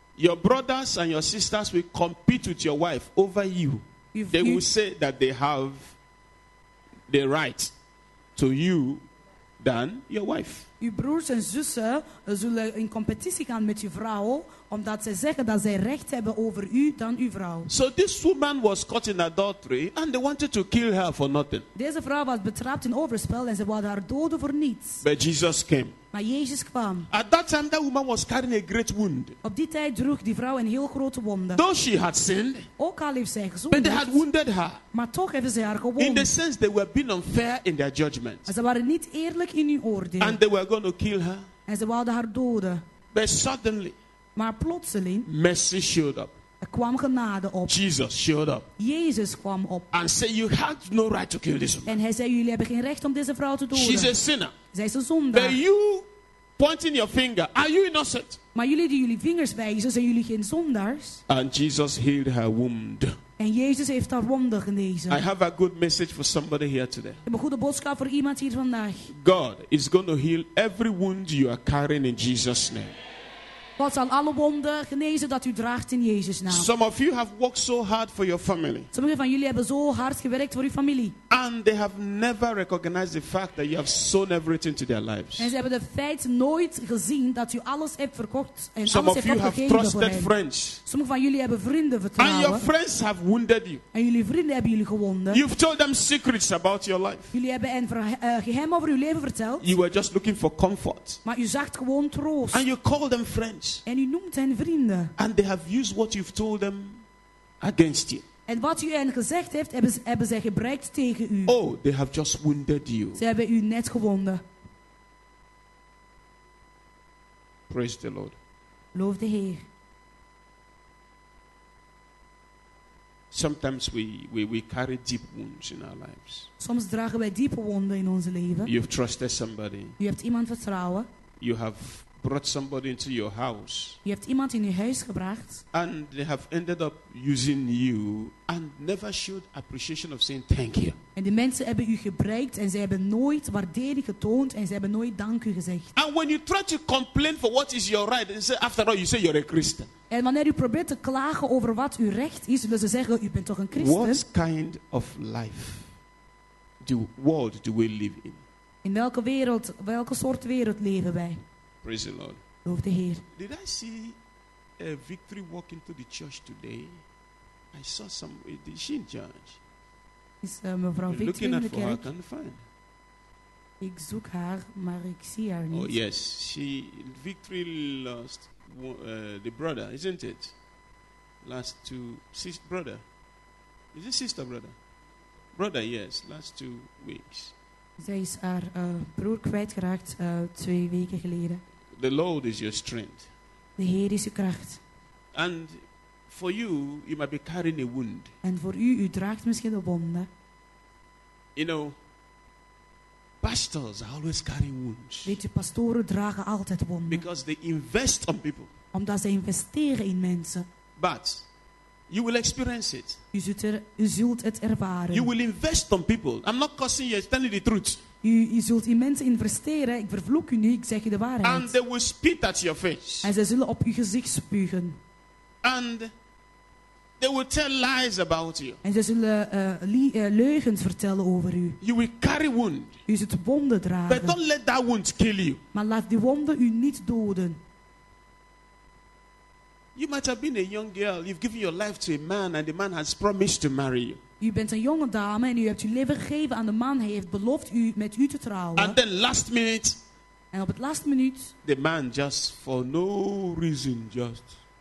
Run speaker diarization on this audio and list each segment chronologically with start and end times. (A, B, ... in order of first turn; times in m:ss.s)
0:00.2-0:05.9 A
0:04.1-0:04.6 B
0:07.1-0:07.7 A
0:08.4-0:09.0 A
0:09.6-0:10.7 A
0:10.8-0:17.7 B
0:17.7-0:21.6 A
0:21.8-0:25.0 B
0:25.0-0:25.9 A
0:26.1-0:27.1 B
0:27.1-0:29.4 A
0:29.4-0:31.6 B
0:31.5-0:32.7 A
0:32.8-0:34.2 B
0:33.7-0:34.8 A
0:34.9-0:36.3 B
0:36.0-0:38.5 A
0:38.4-0:40.4 B
0:40.2-0:41.5 A
0:41.7-0:42.8 B
0:43.1-0:44.0 A
0:44.4-0:45.3 B
0:45.2-0:46.3 A
0:46.6-0:47.8 B
0:47.7-0:48.7 A
0:48.8-0:49.9 B
0:49.9-0:52.0 A
0:51.9-0:54.2 B
0:53.7-0:54.5 A
0:54.7-0:55.6 B
0:55.3-0:56.1 A
0:56.6-0:58.4 A
0:58.5-1:01.2 B
1:01.3-1:03.1 A
1:03.4-1:05.2 B
1:05.1-1:07.2 A
1:07.2-1:09.1 B
1:09.1-1:13.0 A
1:13.8-1:16.7 B
1:16.5-1:18.9 A
1:18.9-1:21.2 B
1:21.3-1:25.5 A
1:25.4-1:30.3 B
1:28.8-1:30.8 A
1:30.8-1:32.6 B
1:32.2-1:33.8 A
1:33.9-1:35.4 B
1:35.3-1:37.3 A
1:37.3-1:39.6 B
1:39.6-1:41.2 A
1:41.2-1:42.6 B
1:42.5-1:43.8 A
1:43.8-1:45.1 B
1:45.2-1:47.0 A
1:47.6-1:48.2 A
1:48.5-1:51.5 B
1:51.5-1:53.2 A
1:53.2-1:54.4 B
1:57.7-1:58.4 A
1:58.9-1:59.6 B
2:03.3-2:06.5 A
2:06.6-2:08.7 B
2:08.6-2:10.0 A
2:10.0-2:11.1 B
2:11.4-2:14.0 A
2:14.0-2:15.6 B
2:15.7-2:21.0 A
2:21.2-2:25.9 B
2:26.0-2:29.9 A
2:30.1-2:34.2 B
2:33.7-2:35.9 A
2:36.8-2:38.4 A
2:38.8-2:41.4 B
2:41.8-2:42.4 A
2:42.6-2:43.2 B
2:43.3-2:44.2 A
2:44.8-2:47.0 A
2:47.7-2:49.6 A
2:50.4-2:52.0 B
2:51.1-2:52.6 A
2:53.8-2:55.9 B
2:55.7-3:00.5 A
3:01.4-3:03.0 A
3:03.9-3:04.7 A
3:05.5-3:07.5 A
3:08.0-3:11.6 B
3:12.0-3:13.3 A
3:13.8-3:14.8 B
3:15.3-3:18.3 A
3:18.4-3:20.3 B
3:21.6-3:22.0 A
3:23.4-3:25.4 A
3:25.2-3:27.2 B
3:27.1-3:28.7 A
3:28.9-3:30.6 B
3:31.0-3:31.4 A
3:32.1-3:33.2 A
3:33.3-3:35.3 B
3:35.1-3:38.0 A
3:38.2-3:41.7 B
3:41.4-3:43.3 A
3:43.2-3:45.0 B
3:45.6-3:46.1 A
3:47.2-3:48.8 A
3:48.8-3:51.8 B
3:51.8-3:52.9 A
3:53.1-3:54.4 B
3:54.1-3:55.6 A
3:55.7-3:57.6 B
3:59.9-4:04.2 A
4:04.4-4:09.0 B
4:08.8-4:10.0 A
4:10.5-4:11.5 B
4:11.6-4:14.6 A